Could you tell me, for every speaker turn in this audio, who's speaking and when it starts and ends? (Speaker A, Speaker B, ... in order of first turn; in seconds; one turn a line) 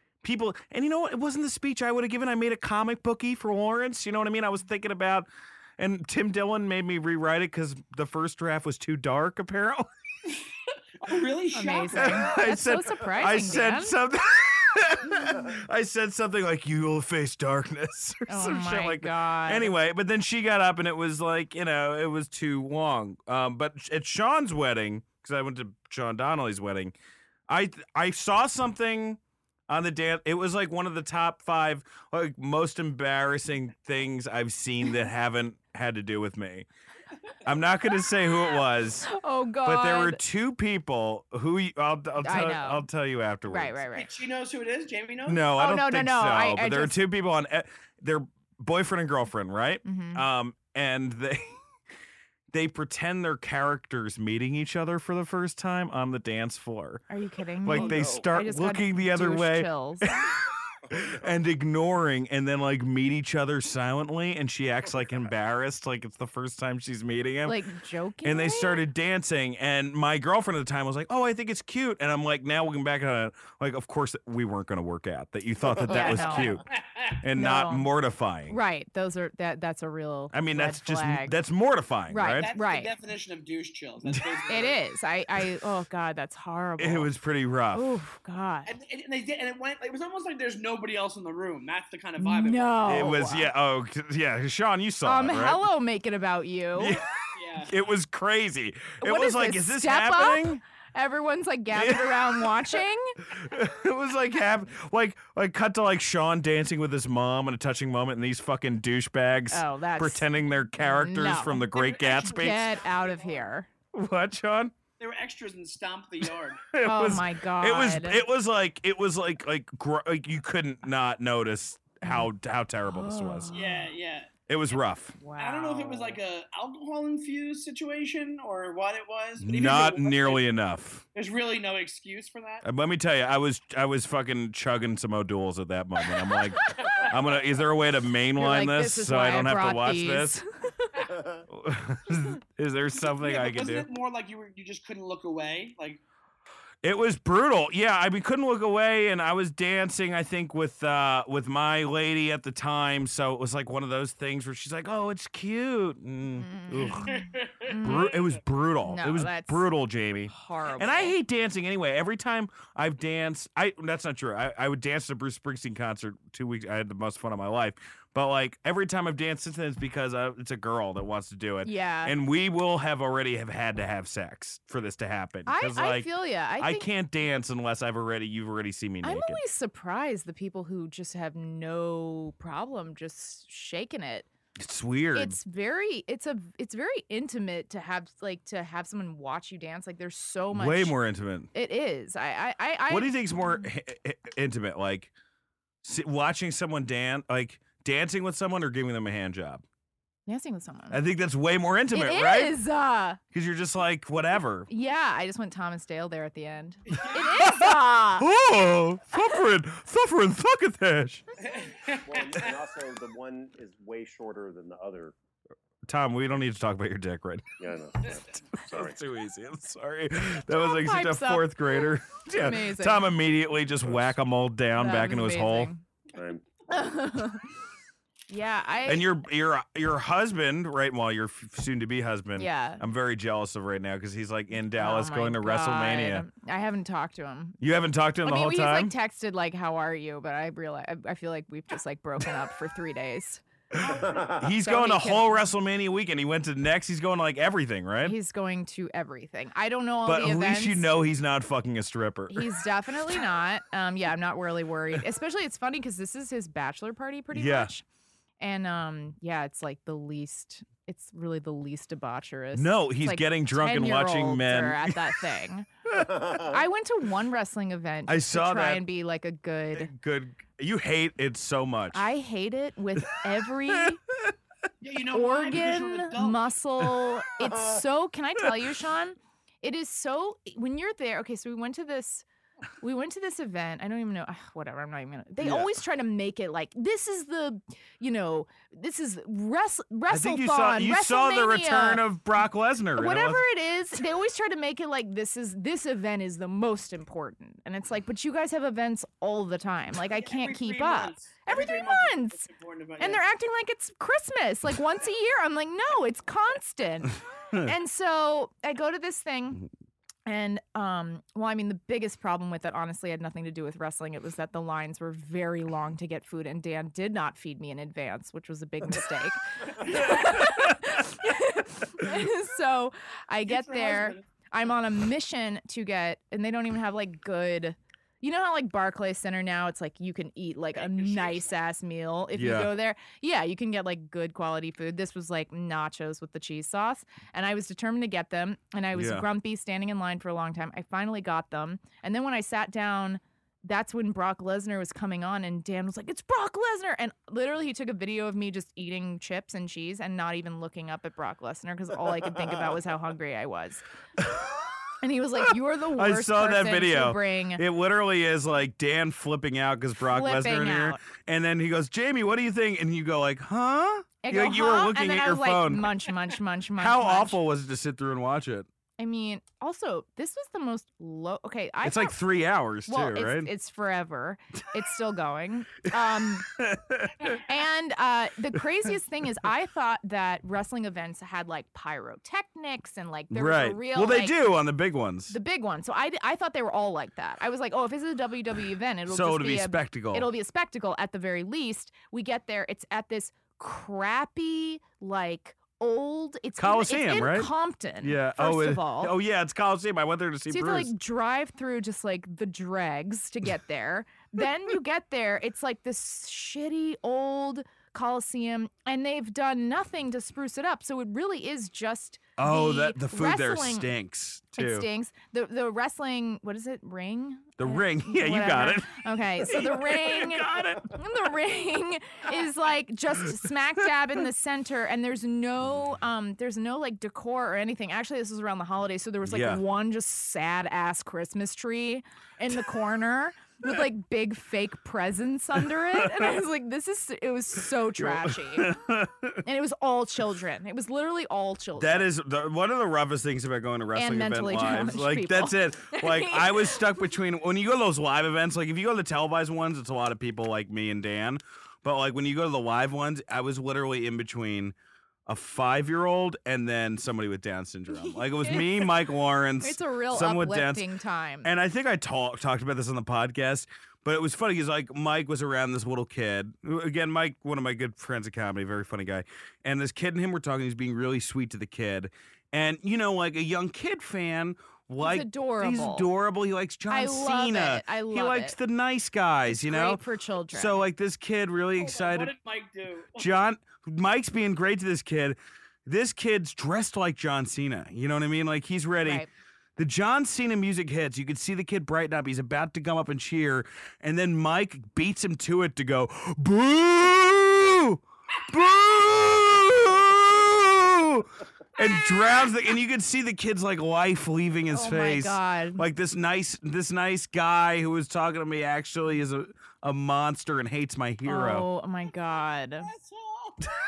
Speaker A: 0.2-9.9
Speaker B: 11.0-12.3
Speaker C: 11.5-14.0
Speaker A: 11.9-26.9
Speaker C: 18.3-19.7
Speaker A: 27.5-36.7
Speaker A: 37.4-39.1
Speaker C: 39.1-40.2
Speaker A: 39.6-43.8
Speaker C: 42.2-42.9
Speaker C: 43.5-44.1
Speaker B: 44.0-45.4
Speaker A: 45.3-51.6
Speaker C: 45.5-47.0
Speaker C: 49.9-50.2
Speaker A: 52.5-57.1
Speaker C: 57.1-60.2
Speaker A: 57.6-67.6
Speaker D: 57.9-58.3
Speaker C: 67.4-68.8
Speaker A: 68.2-76.7
Speaker C: 75.9-76.6
Speaker B: 76.7-77.2
Speaker A: 77.2-78.6
Speaker C: 77.4-77.9
Speaker C: 78.5-81.4
Speaker A: 80.3-82.5
Speaker C: 82.1-82.9
Speaker B: 82.4-84.8
Speaker C: 84.5-87.1
Speaker A: 86.8-87.9
Speaker C: 87.7-88.7
Speaker B: 88.7-92.8
Speaker C: 92.2-93.5
Speaker A: 92.9-95.6
Speaker C: 95.0-97.0
Speaker A: 96.8-100.6
Speaker B: 97.3-97.7
Speaker C: 99.0-103.2
Speaker A: 101.7-102.7
Speaker A: 103.3-112.7
Speaker C: 109.5-111.7
Speaker B: 111.7-113.5
Speaker C: 112.2-113.7
Speaker A: 113.9-114.7
Speaker B: 115.0-116.7
Speaker A: 116.2-123.5
Speaker C: 116.8-118.2
Speaker C: 122.0-122.3
Speaker C: 122.9-123.9
Speaker B: 123.5-124.3
Speaker A: 124.5-125.2
Speaker C: 125.2-126.2
Speaker B: 125.4-130.4
Speaker A: 129.4-131.0
Speaker B: 131.2-132.7
Speaker A: 132.6-140.4
Speaker B: 136.8-137.1
Speaker C: 138.4-141.0
Speaker D: 141.1-141.4
Speaker A: 141.5-143.9
Speaker B: 143.0-146.0
Speaker A: 146.8-157.1
Speaker C: 156.3-158.2
Speaker B: 157.1-158.0
Speaker A: 157.8-179.4
Speaker C: 158.8-159.7
Speaker C: 160.3-161.2
Speaker C: 171.6-172.2
Speaker C: 175.5-176.9
Speaker C: 179.0-184.3
Speaker A: 184.6-185.4
Speaker C: 185.1-191.0
Speaker A: 190.5-191.5
Speaker C: 191.5-193.7
Speaker A: 192.9-195.1
Speaker A: 195.8-199.6
Speaker C: 200.3-201.0
Speaker A: 200.9-202.6
Speaker C: 201.9-203.2
Speaker A: 203.3-204.7
Speaker C: 204.7-208.3
Speaker B: 206.9-207.2
Speaker A: 207.4-211.3
Speaker B: 211.4-212.5
Speaker D: 212.0-215.2
Speaker A: 215.9-217.5
Speaker D: 217.6-219.0
Speaker A: 218.7-225.7
Speaker C: 220.5-223.1
Speaker C: 224.8-225.8
Speaker D: 226.1-226.4
Speaker C: 226.7-227.5
Speaker C: 228.3-229.1
Speaker A: 228.8-236.3
Speaker C: 232.4-232.8
Speaker C: 234.7-237.6
Speaker A: 237.6-238.9
Speaker C: 238.2-243.4
Speaker A: 243.7-248.2
Speaker D: 243.9-244.4
Speaker C: 244.6-245.4
Speaker C: 248.0-250.9
Speaker A: 250.1-252.6
Speaker C: 252.3-257.9
Speaker A: 257.3-257.7
Speaker C: 258.4-265.7
Speaker A: 262.5-265.2
Speaker A: 265.9-266.1
Speaker D: 266.0-266.5
Speaker C: 266.3-269.9
Speaker A: 268.1-268.8
Speaker A: 269.8-272.1
Speaker C: 271.9-274.0
Speaker A: 273.7-274.3
Speaker B: 274.8-276.5
Speaker C: 275.1-282.3
Speaker C: 282.8-292.1
Speaker A: 285.4-285.7
Speaker A: 290.1-293.4
Speaker C: 293.0-309.7
Speaker B: 300.1-303.2
Speaker C: 310.3-353.9
Speaker A: 319.8-321.3
Speaker B: 323.4-324.2
Speaker B: 330.8-331.5
Speaker A: 332.4-332.7
Speaker A: 338.9-339.3
Speaker A: 354.2-354.8
Speaker C: 355.0-357.6
Speaker A: 355.9-365.9
Speaker C: 360.1-361.0
Speaker C: 364.2-367.4
Speaker A: 366.8-368.7
Speaker C: 369.0-372.2
Speaker A: 371.8-373.5
Speaker C: 372.9-376.5
Speaker A: 375.9-377.4
Speaker C: 377.3-384.4
Speaker A: 383.3-385.4
Speaker C: 385.3-399.1
Speaker A: 389.1-390.3
Speaker A: 396.6-400.9
Speaker C: 400.5-413.9
Speaker A: 412.4-414.9
Speaker C: 414.6-438.8
Speaker A: 417.6-421.1
Speaker A: 429.2-429.6
Speaker A: 435.9-436.3
Speaker A: 438.0-439.4
Speaker C: 439.4-442.1
Speaker A: 441.8-454.8
Speaker C: 443.9-447.0
Speaker A: 455.3-460.9
Speaker C: 457.9-459.0
Speaker C: 459.6-461.5
Speaker A: 461.4-482.3
Speaker C: 475.0-476.1
Speaker C: 476.9-478.6
Speaker C: 479.5-480.9
Speaker B: 481.8-483.3
Speaker A: 483.2-489.2
Speaker C: 489.0-489.3
Speaker A: 489.8-511.7
Speaker C: 504.7-505.9
Speaker C: 511.3-512.9
Speaker B: 512.8-513.7